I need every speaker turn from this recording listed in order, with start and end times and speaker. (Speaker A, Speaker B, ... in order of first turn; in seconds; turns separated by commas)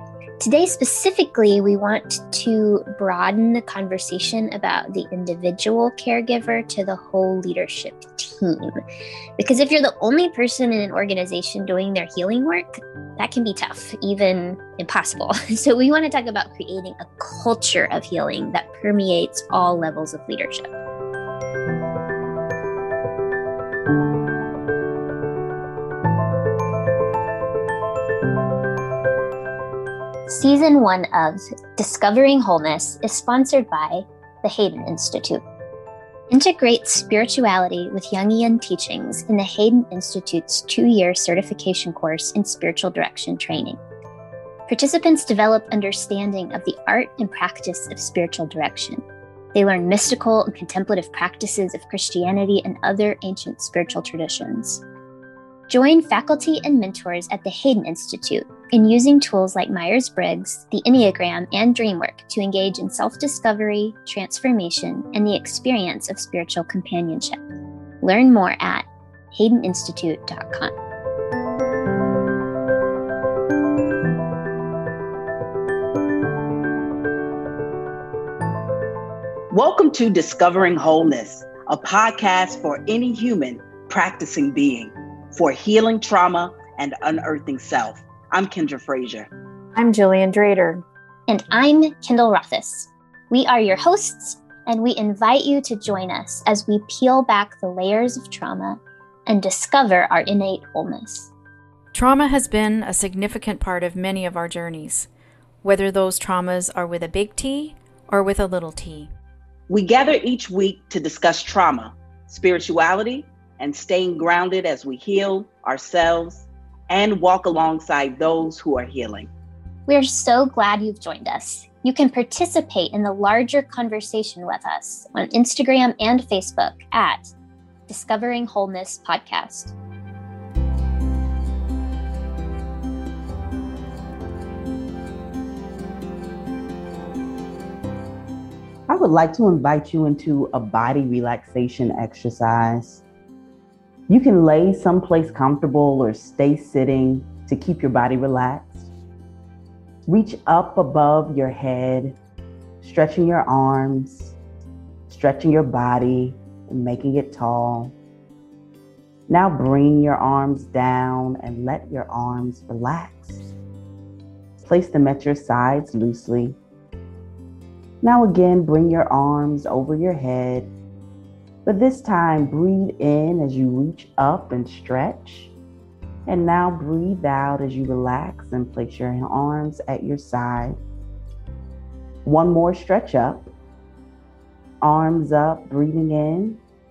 Speaker A: 0.4-8.8, Speaker A: 9.4-20.7, Speaker A: 30.3-35.4, Speaker A: 36.3-43.8, Speaker A: 44.7-54.8, Speaker A: 55.7-67.4, Speaker A: 68.0-70.7, Speaker B: 79.5-89.3, Speaker C: 89.7-90.8, Speaker A: 91.3-101.3, Speaker C: 101.9-105.1, Speaker C: 105.6-109.1, Speaker B: 109.7-119.3, Speaker A: 119.9-127.3, Speaker A: 127.9-129.7, Speaker B: 138.9-143.0, Speaker B: 144.1-148.9, Speaker B: 150.1-152.2, Speaker B: 152.8-154.3, Speaker B: 155.1-157.9, Speaker B: 159.3-163.5, Speaker B: 164.6-166.6, Speaker B: 168.0-170.7, Speaker B: 171.6-175.5, Speaker B: 176.2-180.8, Speaker B: 182.2-183.5, Speaker B: 184.8-186.6